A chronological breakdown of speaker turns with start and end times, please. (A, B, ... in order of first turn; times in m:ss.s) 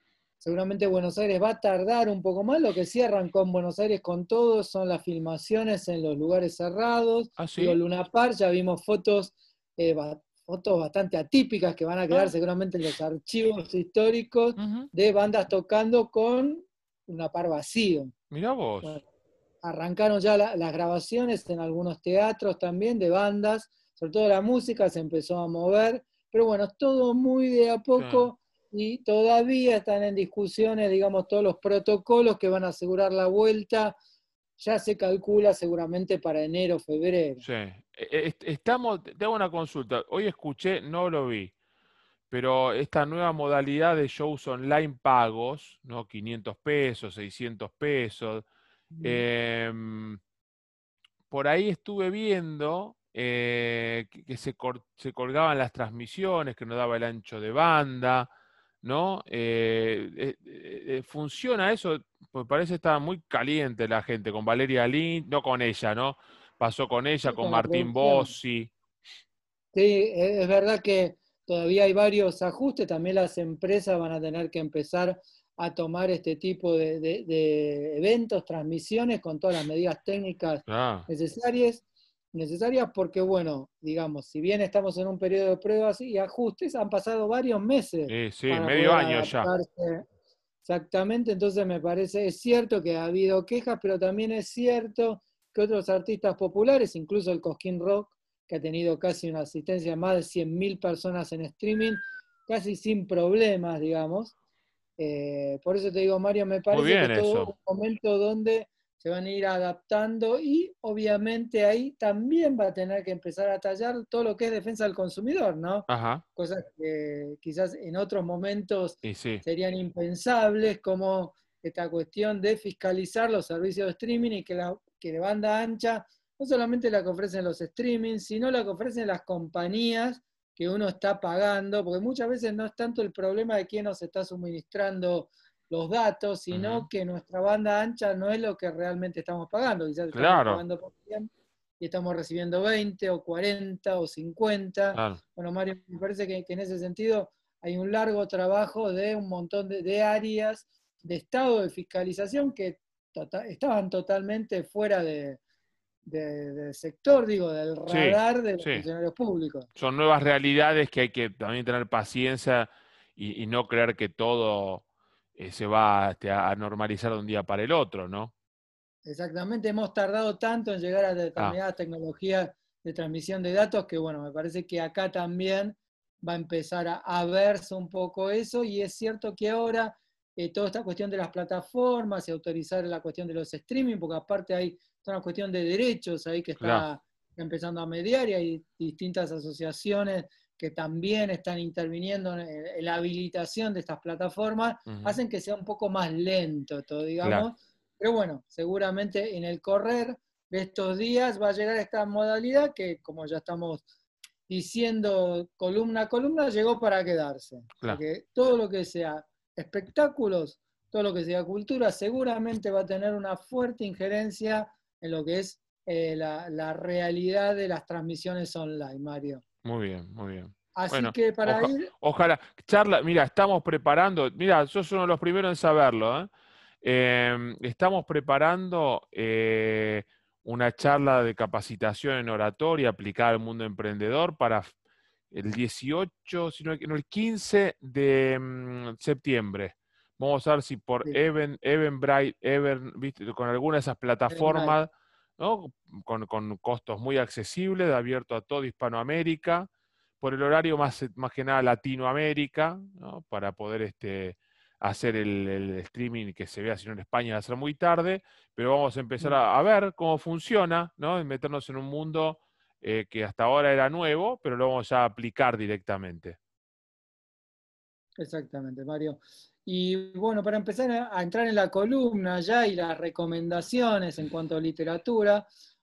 0:00.4-0:18.1 A
0:07.4-0:07.8 B
0:14.6-0:14.9 B
0:18.3-0:19.0 B
0:19.6-0:34.0 A
0:28.0-0:28.3 B
0:34.6-0:37.4 A
0:37.4-0:41.5 B
0:42.3-0:48.4 B
0:49.0-0:49.2 A
0:49.0-0:50.2 B
0:51.3-0:58.3 B
0:58.8-1:08.7 B
1:07.3-1:08.3 A
1:09.7-1:30.0 A
1:20.7-1:21.1 B
1:28.1-1:29.5 B
1:30.6-1:44.3 A
1:45.0-2:35.4 A
1:46.7-1:47.5 B
1:55.9-1:56.2 B
1:59.0-1:59.4 B
2:16.5-2:16.9 B
2:20.1-2:20.6 B
2:24.9-2:25.2 B
2:36.0-2:39.7 A
2:37.9-2:38.8 B
2:39.8-2:44.8 B
2:45.4-2:48.3 B
2:49.0-3:23.9 A
3:06.6-3:06.9 B
3:14.9-3:15.2 B
3:17.2-3:17.5 B
3:24.5-3:39.4 A
3:39.6-3:46.3 B
3:40.8-3:41.9 A
3:46.8-3:54.7 B
3:55.3-4:09.7 B
4:04.3-4:04.8 A
4:10.2-4:26.4 B
4:28.2-4:35.5 A